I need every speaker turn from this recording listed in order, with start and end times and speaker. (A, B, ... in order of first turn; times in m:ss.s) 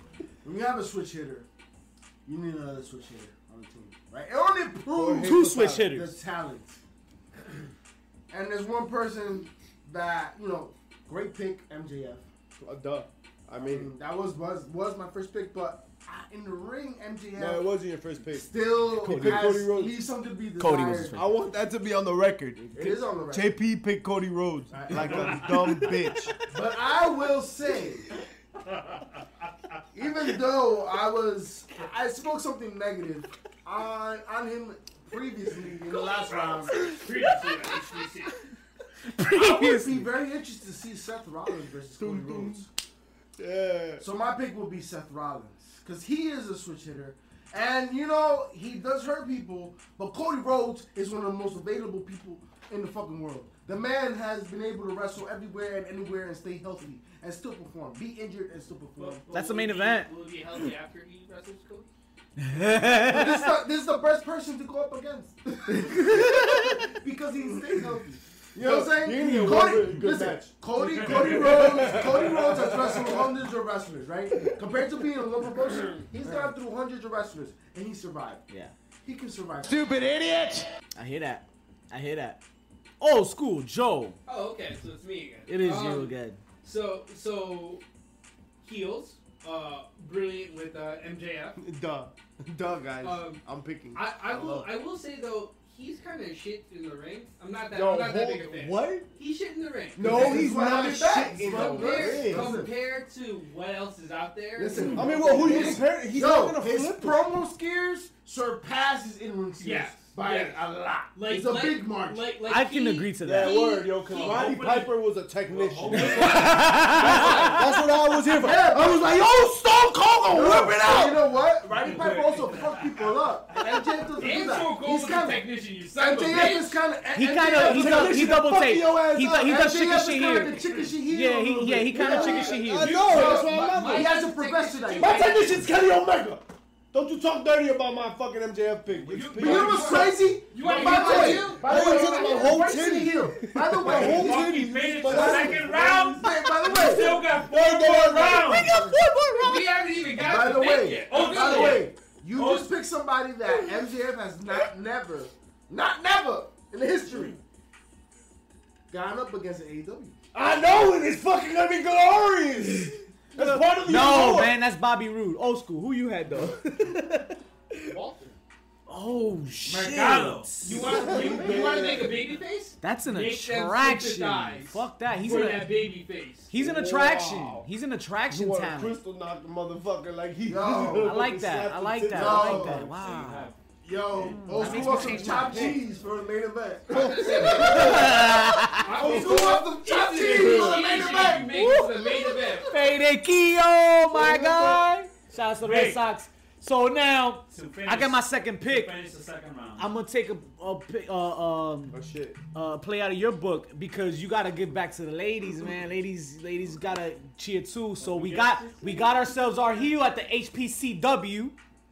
0:00.4-0:01.4 A
0:02.2-0:06.8 A
0:04.9-0:05.9 B
0:05.2-0:06.1 C
0:08.3-0:12.2 A
0:12.6-0:13.9 B
0:13.6-0:17.7 A
0:17.4-0:20.0 B
0:18.3-0:21.2 A
0:19.0-0:19.6 C
0:20.6-0:21.4 C
0:21.1-0:26.3 B
0:22.7-0:23.5 A
0:24.7-0:25.5 A
0:25.3-0:26.5 C
0:26.5-0:28.1 A
0:29.9-0:37.0 A
0:36.8-0:38.4 D
0:39.1-0:40.1 C
0:39.2-0:42.7 A
0:42.0-0:42.6 B
0:43.4-0:44.0 B
0:44.0-0:59.3 A
0:59.0-1:01.9 D
0:59.3-1:00.1 C
1:02.4-1:03.5 C
1:03.0-1:18.4 A
1:06.0-1:06.6 C
1:08.6-1:13.3 B
1:09.2-1:09.7 C
1:10.7-1:12.4 E
1:16.2-1:16.5 B
1:18.5-1:18.7 C
1:19.0-1:19.9 A
1:19.7-1:20.7 B
1:20.9-1:22.4 C
1:23.0-1:24.2 C
1:24.2-1:27.8 D
1:25.5-1:26.4 C
1:28.6-1:31.6 D
1:31.6-1:34.7 B
1:33.0-1:40.6 D
1:37.7-1:39.0 B
1:38.7-1:39.0 C
1:40.0-1:42.7 B
1:40.0-1:42.7 A
1:41.3-1:45.8 D
1:44.5-1:52.3 A
1:44.7-1:45.0 C
1:44.9-1:47.2 B
1:49.6-1:54.6 D
1:52.4-1:53.6 C
1:53.2-2:01.2 B
1:54.0-1:57.6 E
1:55.9-1:56.2 D
1:56.1-1:57.6 C
1:57.3-1:57.6 A
1:58.1-1:59.1 A
2:00.3-2:08.4 A
2:01.7-2:03.8 E
2:04.2-2:06.8 D
2:07.1-2:13.0 C
2:07.5-2:09.6 B
2:09.4-2:15.3 A
2:11.6-2:14.1 B
2:12.5-2:15.6 D
2:14.9-2:28.8 B
2:18.8-2:20.2 E
2:19.3-2:24.5 A
2:19.8-2:22.5 D
2:23.5-2:23.9 C
2:23.8-2:28.8 E
2:25.0-2:27.2 A
2:28.1-2:30.1 C
2:29.4-2:31.9 D
2:30.1-2:37.4 A
2:30.5-2:32.7 E
2:38.9-2:40.2 A
2:40.3-2:44.6 B
2:43.3-2:47.4 C
2:46.3-2:46.6 B
2:47.8-2:48.4 D
2:48.9-2:51.6 C
2:49.6-2:50.6 E
2:50.6-2:56.5 D
2:50.6-2:52.3 B
2:52.8-2:55.9 C
2:56.5-2:59.0 C
2:56.5-2:57.7 B
2:58.3-3:02.9 B
3:00.4-3:01.2 A
3:01.0-3:03.5 C
3:02.1-3:02.8 A
3:02.7-3:03.6 E
3:03.8-3:08.3 A
3:04.2-3:05.8 C
3:04.6-3:05.8 B
3:06.9-3:08.1 D
3:06.9-3:09.6 B
3:07.5-3:09.0 C
3:08.7-3:12.8 D
3:08.9-3:11.7 A
3:10.2-3:11.4 E
3:10.3-3:11.2 B
3:11.3-3:18.9 C
3:14.1-3:14.8 B
3:15.6-3:16.0 E
3:17.5-3:19.9 E
3:19.8-3:31.6 C
3:21.9-3:22.4 B
3:28.0-3:29.6 E